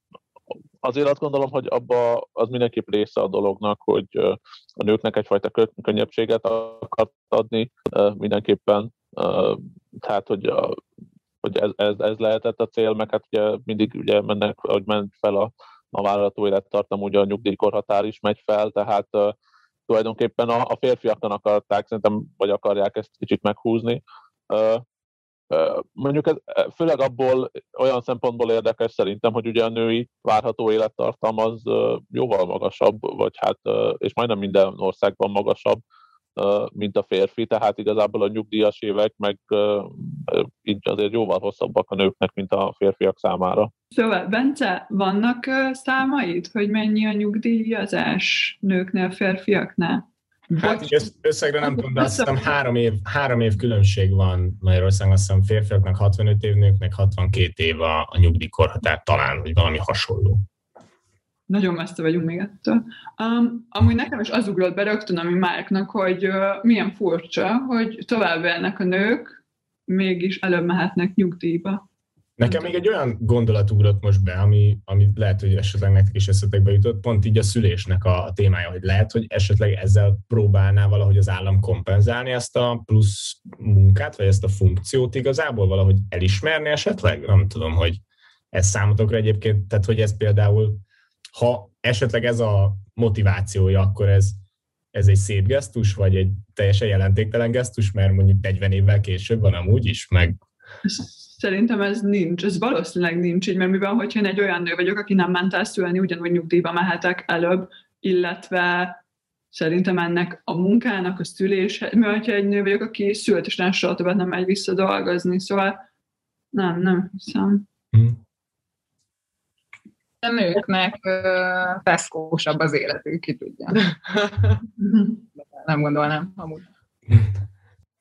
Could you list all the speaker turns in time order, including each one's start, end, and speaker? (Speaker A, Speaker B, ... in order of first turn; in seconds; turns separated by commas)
Speaker A: 0.8-10.8, Speaker A: 11.4-19.3, Speaker A: 19.9-24.8, Speaker A: 25.5-35.8, Speaker A: 36.4-43.7, Speaker B: 43.9-51.1, Speaker C: 50.5-60.4, Speaker B: 51.6-52.5, Speaker B: 61.5-71.8, Speaker C: 72.4-94.4, Speaker B: 72.4-72.7, Speaker C: 94.9-100.3, Speaker B: 100.8-109.0, Speaker B: 109.5-115.8, Speaker B: 116.5-117.6, Speaker C: 117.9-118.2, Speaker D: 120.2-123.9, Speaker D: 125.0-126.6